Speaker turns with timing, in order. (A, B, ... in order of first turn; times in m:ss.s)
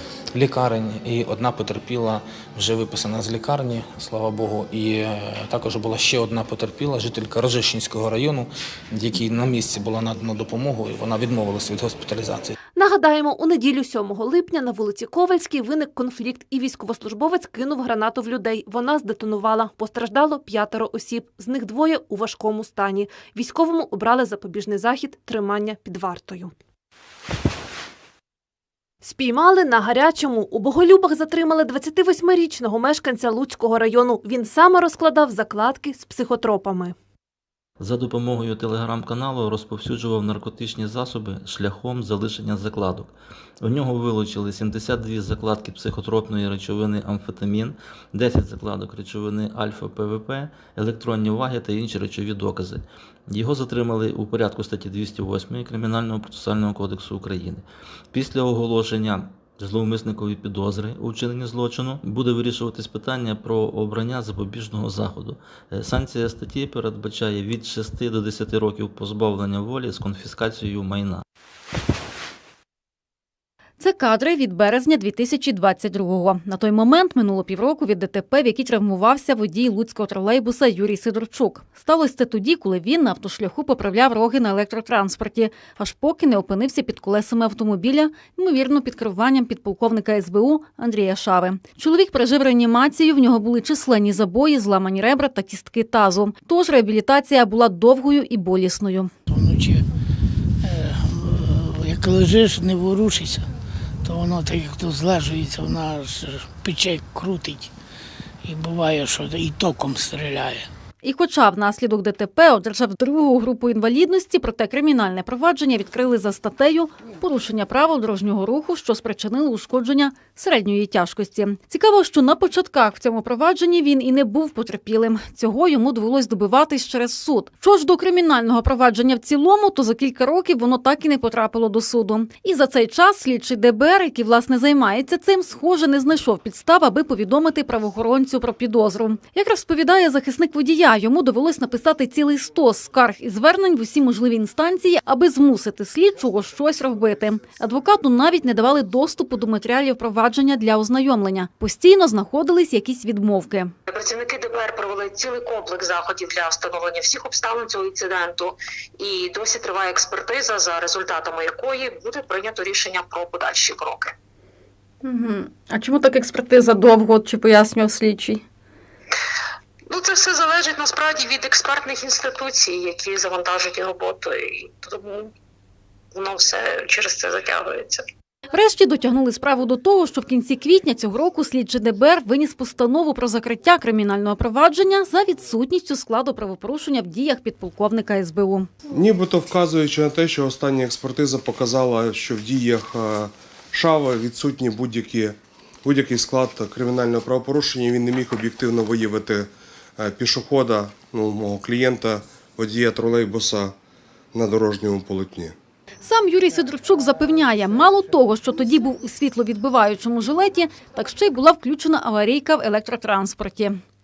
0:00.3-0:12.5 A
0:12.8-0:26.5 B
0:29.0-0:36.9 B
0:37.8-1:11.2 C
1:13.8-1:39.1 D
1:39.3-1:39.8 E
1:40.6-1:43.5 E
1:44.0-1:47.7 E
1:48.4-1:50.7 E
1:51.0-2:33.7 D
2:33.9-2:44.1 F
2:45.0-2:48.4 D
2:49.9-2:55.3 F
2:56.1-2:58.0 F
2:58.5-3:08.7 D
3:08.9-3:23.7 G
3:24.3-3:25.5 G
3:26.0-3:33.8 D